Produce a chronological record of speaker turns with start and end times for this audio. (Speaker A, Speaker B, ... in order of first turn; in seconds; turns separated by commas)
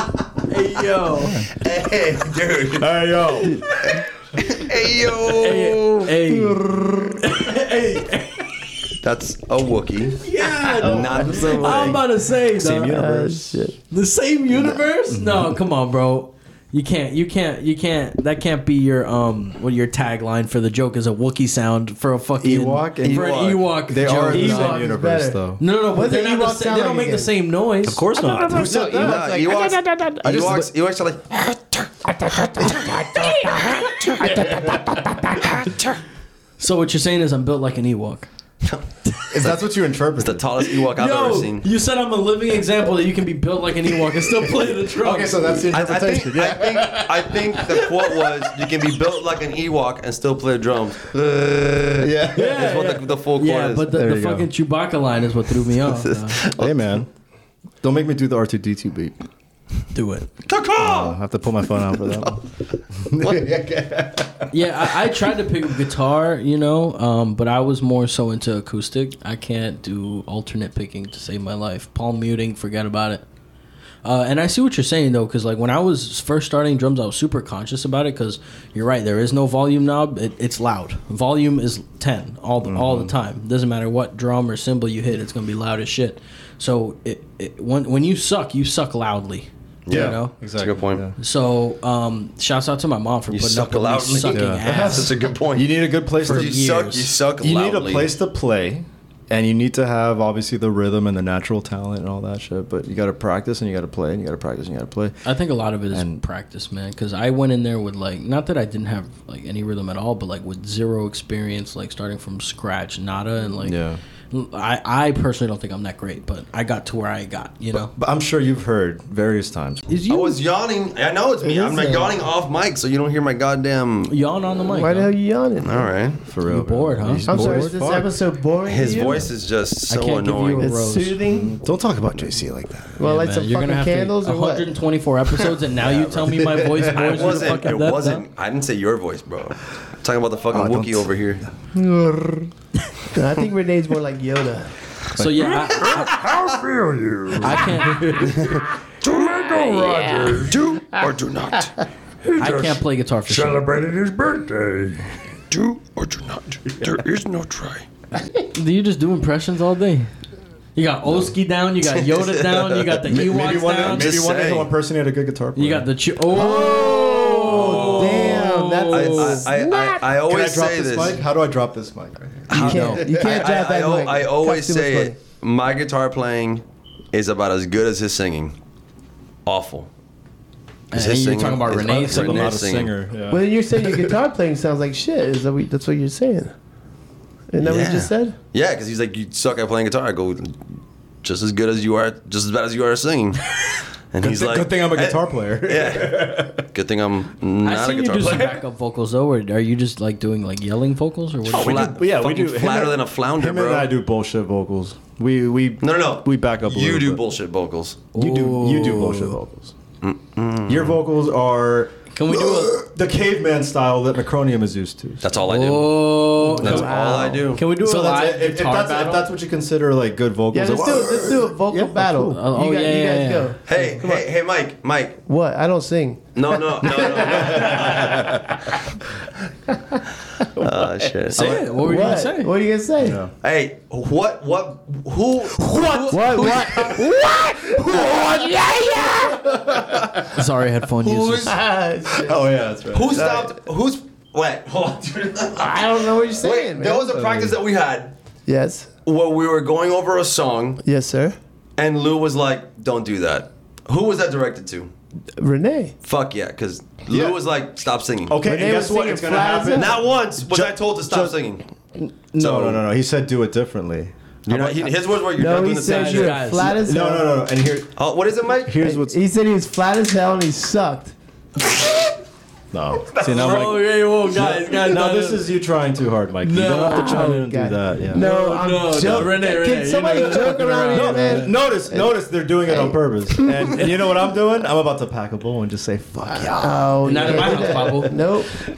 Speaker A: 0.5-1.4, Speaker B: 1.1-1.5, Speaker C: 1.5-3.0, Speaker B: 2.7-3.7, Speaker C: 3.8-6.1, Speaker A: 5.4-8.6, Speaker C: 9.0-10.2, Speaker A: 10.2-13.0, Speaker B: 10.6-12.0, Speaker C: 10.7-12.0, Speaker D: 10.9-11.7, Speaker B: 12.6-13.7, Speaker D: 12.8-13.8, Speaker A: 13.9-24.8, Speaker B: 15.1-15.5, Speaker B: 22.4-25.6, Speaker C: 23.0-24.2, Speaker D: 24.2-27.3, Speaker A: 25.6-28.0, Speaker B: 27.8-29.3, Speaker D: 28.1-30.6, Speaker C: 28.9-31.9, Speaker D: 32.0-35.7, Speaker C: 32.6-34.6, Speaker C: 35.5-36.0, Speaker A: 36.6-38.3, Speaker C: 38.6-39.6, Speaker B: 39.3-40.5, Speaker C: 40.2-41.6, Speaker A: 40.9-45.7, Speaker B: 44.7-48.3, Speaker C: 45.7-53.9, Speaker B: 52.0-52.7, Speaker A: 52.3-56.4, Speaker B: 53.9-54.5, Speaker C: 55.8-56.8, Speaker B: 56.4-57.1, Speaker B: 57.8-59.2, Speaker A: 59.9-60.3, Speaker C: 60.5-61.2, Speaker B: 60.8-64.5, Speaker C: 63.2-63.5, Speaker A: 64.5-73.2, Speaker A: 74.0-90.3, Speaker B: 82.6-83.1, Speaker C: 89.8-91.0, Speaker B: 89.9-91.1, Speaker A: 91.2-95.2, Speaker C: 93.3-98.1, Speaker B: 94.3-96.6, Speaker A: 96.2-97.1, Speaker B: 97.4-105.2, Speaker A: 105.2-113.8, Speaker B: 105.9-106.2, Speaker B: 113.6-114.0, Speaker A: 114.3-117.9, Speaker B: 117.7-119.9, Speaker A: 119.9-120.4, Speaker C: 120.1-124.1, Speaker D: 121.4-122.2, Speaker A: 124.1-125.1, Speaker D: 124.7-125.9, Speaker C: 125.6-126.2, Speaker B: 126.2-128.1, Speaker A: 126.5-127.7, Speaker D: 127.3-129.3, Speaker C: 128.7-130.7, Speaker A: 129.9-131.2, Speaker D: 130.6-131.6, Speaker B: 131.3-133.0, Speaker D: 133.0-134.7, Speaker A: 133.0-138.2, Speaker C: 135.8-141.4, Speaker B: 136.2-137.4, Speaker B: 140.5-141.8, Speaker D: 141.9-142.5, Speaker D: 143.1-144.7, Speaker B: 145.2-145.8, Speaker A: 145.2-146.2, Speaker B: 147.2-148.6, Speaker A: 147.3-148.5, Speaker C: 148.3-151.7, Speaker E: 149.2-150.5, Speaker D: 149.7-150.4, Speaker C: 152.3-152.8, Speaker A: 152.3-153.8, Speaker C: 153.3-153.7, Speaker E: 153.8-154.6, Speaker C: 155.5-157.9, Speaker A: 158.2-160.1, Speaker A: 160.7-164.2, Speaker C: 161.9-163.0, Speaker B: 163.1-169.4, Speaker C: 163.7-164.7, Speaker A: 165.6-169.4, Speaker D: 166.3-170.1, Speaker C: 167.4-171.2, Speaker B: 170.2-173.3, Speaker C: 172.5-178.6, Speaker A: 172.5-173.0, Speaker D: 172.6-175.1, Speaker C: 179.4-179.9, Speaker A: 180.9-182.5, Speaker C: 180.9-182.9, Speaker B: 181.7-183.4, Speaker D: 183.3-186.5, Speaker D: 187.5-188.3, Speaker C: 187.6-190.6, Speaker C: 191.2-198.6, Speaker B: 194.2-196.6, Speaker A: 197.6-201.9, Speaker C: 201.4-203.9, Speaker B: 201.5-207.2, Speaker C: 205.8-208.0, Speaker A: 208.1-209.3, Speaker B: 208.1-209.7, Speaker C: 210.0-211.0, Speaker B: 210.7-215.2, Speaker A: 212.1-212.8, Speaker C: 215.2-217.6, Speaker A: 215.4-217.0, Speaker B: 216.4-222.4, Speaker D: 216.6-217.5, Speaker A: 217.5-219.3, Speaker D: 220.5-224.3, Speaker A: 222.2-223.8, Speaker C: 223.7-225.2, Speaker D: 225.2-228.8, Speaker C: 226.3-228.4, Speaker B: 227.2-228.4, Speaker D: 229.7-229.9, Speaker C: 230.6-231.7, Speaker B: 230.6-231.5, Speaker A: 231.4-232.5, Speaker D: 231.4-233.2, Speaker B: 233.0-233.3, Speaker C: 233.4-237.2, Speaker D: 235.6-239.6, Speaker B: 239.3-240.3, Speaker A: 240.3-241.5, Speaker C: 241.0-241.5, Speaker D: 241.4-242.5, Speaker B: 242.1-243.4, Speaker C: 242.9-248.1, Speaker D: 243.1-243.5, Speaker D: 245.5-247.1, Speaker B: 247.1-247.6, Speaker D: 248.4-248.9, Speaker C: 249.1-250.8, Speaker D: 250.8-251.3, Speaker C: 251.8-254.9, Speaker D: 255.4-255.9, Speaker C: 256.0-258.4, Speaker B: 257.1-257.4, Speaker B: 258.3-261.4, Speaker D: 258.4-260.0, Speaker C: 259.7-261.6, Speaker B: 261.9-264.9, Speaker C: 262.4-262.8, Speaker C: 264.4-266.5, Speaker D: 265.3-267.4, Speaker A: 265.8-266.8, Speaker B: 266.6-267.9, Speaker C: 267.9-268.7, Speaker B: 268.5-269.2, Speaker D: 268.8-271.1, Speaker B: 272.7-278.2, Speaker A: 273.2-275.5, Speaker C: 273.2-273.5, Speaker A: 276.4-277.4, Speaker D: 276.8-283.0, Speaker A: 278.1-281.5, Speaker B: 279.0-279.3, Speaker B: 280.0-287.9, Speaker D: 286.2-288.6, Speaker A: 287.0-288.3